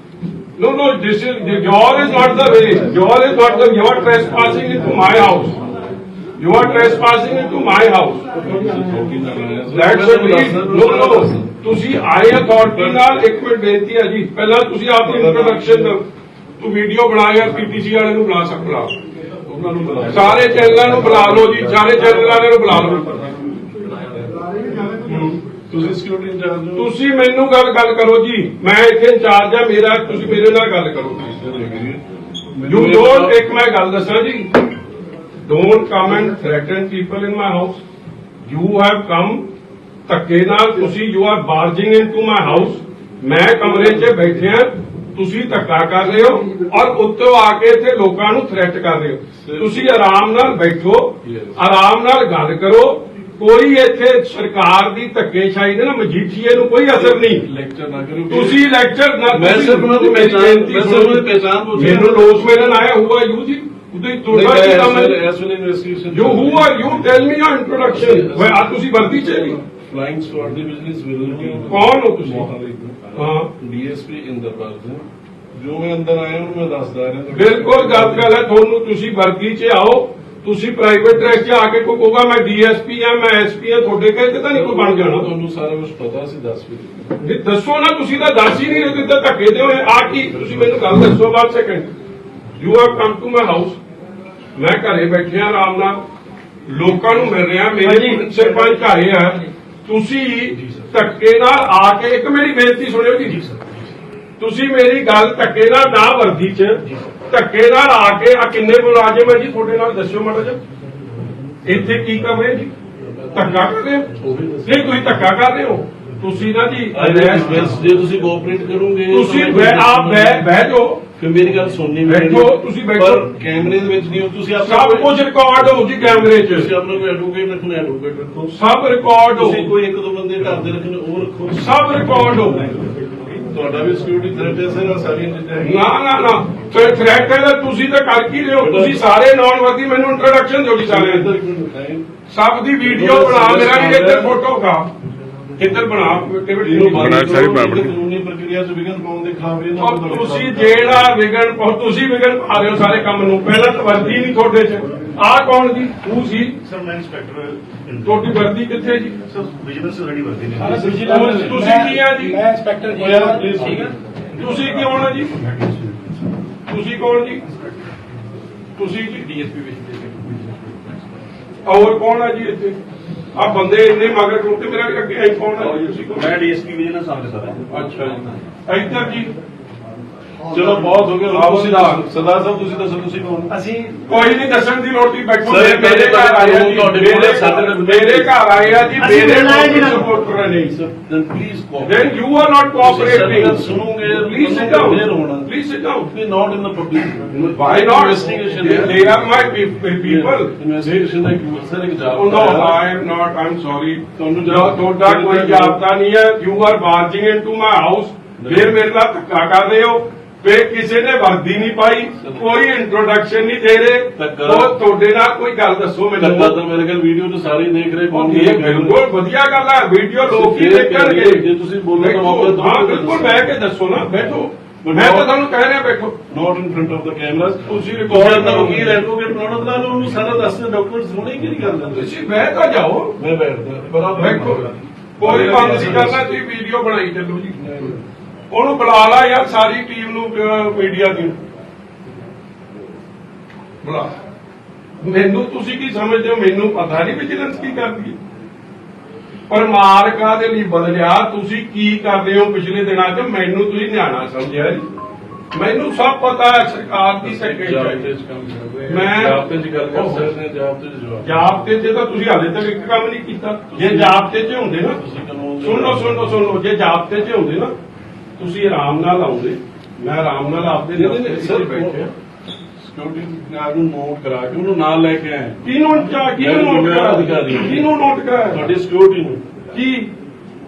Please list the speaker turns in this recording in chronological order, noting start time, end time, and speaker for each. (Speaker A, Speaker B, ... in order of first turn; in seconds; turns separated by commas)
Speaker A: 0.6-5.6, Speaker A: 6.4-8.3, Speaker B: 8.3-11.6, Speaker A: 9.7-16.0, Speaker B: 12.7-13.2, Speaker B: 15.0-16.0, Speaker A: 16.6-18.9, Speaker B: 19.4-22.6, Speaker A: 20.1-23.3, Speaker A: 25.0-25.4, Speaker B: 25.7-26.9, Speaker A: 26.8-31.4, Speaker B: 31.3-32.0, Speaker B: 32.5-33.4, Speaker A: 32.7-34.5, Speaker A: 35.5-37.8, Speaker A: 38.4-39.4, Speaker A: 40.1-57.5, Speaker B: 43.7-44.2, Speaker B: 49.4-49.9, Speaker B: 51.2-51.6, Speaker B: 57.0-58.6, Speaker A: 58.3-65.2, Speaker B: 59.3-62.8, Speaker B: 64.3-67.2, Speaker A: 66.1-69.6, Speaker B: 67.8-78.4, Speaker A: 71.7-72.5, Speaker A: 73.2-73.5, Speaker A: 77.3-85.3, Speaker B: 84.5-87.0, Speaker A: 87.2-91.9, Speaker B: 90.3-90.7, Speaker A: 92.6-93.8, Speaker A: 94.6-96.0, Speaker A: 96.7-103.4, Speaker C: 97.8-98.4, Speaker B: 100.5-101.0, Speaker B: 103.3-103.9, Speaker A: 104.4-110.6, Speaker A: 111.7-112.7, Speaker B: 113.0-115.1, Speaker A: 113.3-114.1, Speaker A: 114.7-117.7, Speaker B: 116.9-120.5, Speaker A: 119.1-121.0, Speaker B: 121.2-125.1, Speaker A: 122.0-123.3, Speaker A: 124.6-126.7, Speaker B: 126.0-128.6, Speaker A: 128.5-129.7, Speaker B: 129.3-131.9, Speaker A: 131.5-132.8, Speaker B: 133.5-135.8, Speaker A: 135.6-141.3, Speaker B: 138.6-139.0, Speaker B: 140.8-142.1, Speaker A: 142.3-144.9, Speaker B: 142.8-144.4, Speaker A: 145.6-147.8, Speaker B: 146.6-151.1, Speaker A: 149.8-156.6, Speaker D: 156.6-158.2, Speaker A: 158.0-159.2, Speaker D: 159.3-161.0, Speaker C: 160.5-163.9, Speaker B: 160.6-161.7, Speaker A: 161.0-162.4, Speaker B: 162.9-163.9, Speaker A: 164.3-165.4, Speaker A: 166.7-167.5, Speaker A: 168.8-169.4, Speaker C: 169.4-170.7, Speaker A: 171.7-172.8, Speaker A: 173.3-176.4, Speaker D: 176.0-177.7, Speaker B: 177.7-178.2, Speaker A: 177.8-179.3, Speaker B: 180.5-183.7, Speaker A: 181.3-182.0, Speaker C: 183.7-184.0, Speaker A: 184.1-190.8, Speaker B: 185.4-188.4, Speaker C: 189.0-190.1, Speaker B: 190.6-192.1, Speaker A: 191.8-196.1, Speaker B: 192.8-195.5, Speaker B: 196.1-199.2, Speaker A: 197.3-200.6, Speaker B: 200.0-202.8, Speaker A: 202.1-216.6, Speaker B: 204.2-205.8, Speaker B: 208.4-208.8, Speaker B: 214.2-214.8, Speaker B: 216.2-219.0, Speaker A: 218.1-226.2, Speaker B: 220.3-223.4, Speaker B: 224.8-225.3, Speaker B: 226.3-232.2, Speaker A: 227.6-229.0, Speaker A: 231.9-233.2, Speaker B: 233.2-236.3, Speaker A: 234.1-237.6, Speaker B: 237.5-238.0, Speaker A: 238.5-241.4, Speaker A: 243.8-244.1, Speaker A: 245.0-248.2, Speaker A: 249.5-254.8, Speaker A: 255.5-258.1, Speaker B: 257.2-261.5, Speaker A: 258.9-259.4, Speaker A: 259.9-260.3, Speaker A: 261.2-265.0, Speaker B: 263.7-266.4, Speaker A: 265.6-267.7, Speaker A: 268.4-272.1, Speaker B: 270.9-272.1, Speaker B: 272.8-275.6, Speaker A: 275.6-278.6, Speaker B: 276.4-277.9, Speaker B: 278.5-279.4, Speaker A: 279.7-280.1